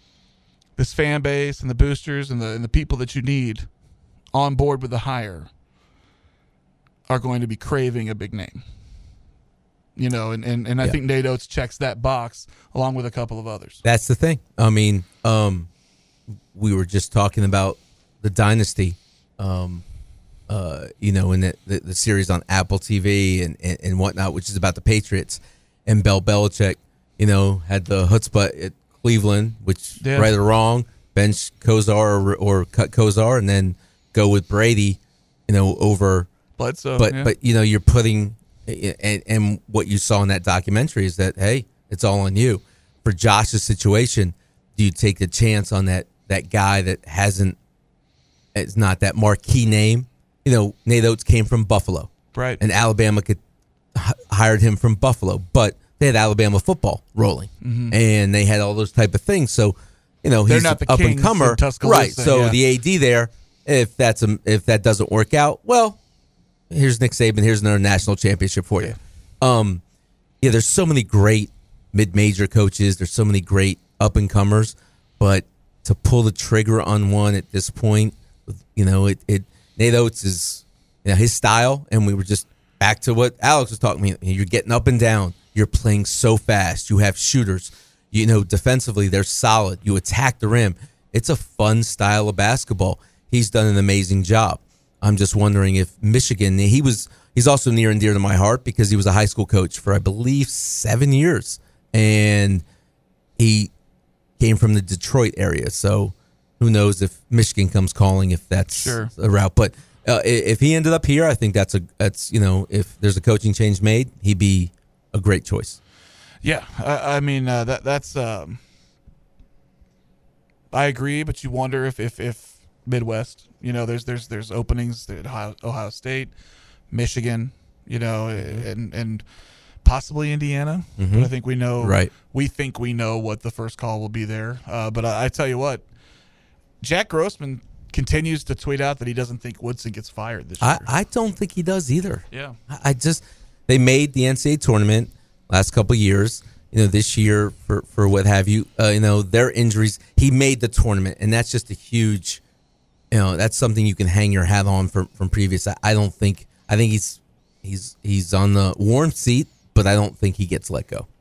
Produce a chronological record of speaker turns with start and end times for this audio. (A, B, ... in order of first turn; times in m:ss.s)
0:00.8-0:03.7 A
0:04.3-0:05.5 A
0:07.1-0:08.6 A
0:10.0-0:13.8 A
0:13.8-0:15.7 B
0:16.5-0:19.8 B
0:20.5-0:36.3 B
0:30.0-0:30.3 A
0:36.6-0:37.3 A
0:37.0-0:47.6 B
0:48.5-0:53.4 B
0:52.3-0:52.6 A
0:53.9-1:06.0 B
0:57.6-0:58.0 A
1:00.4-1:02.6 A
1:06.7-1:09.8 B
1:10.4-1:42.6 B
1:43.4-1:43.7 B
1:44.4-1:55.8 B
1:48.7-1:49.1 A
1:56.4-1:58.6 A
2:00.7-2:06.3 A
2:06.9-2:09.2 A
2:08.4-2:08.6 B
2:09.8-2:15.8 A
2:11.0-2:12.1 B
2:16.8-2:20.9 A
2:20.6-2:32.4 B
2:22.3-2:22.6 A
2:33.1-2:41.1 B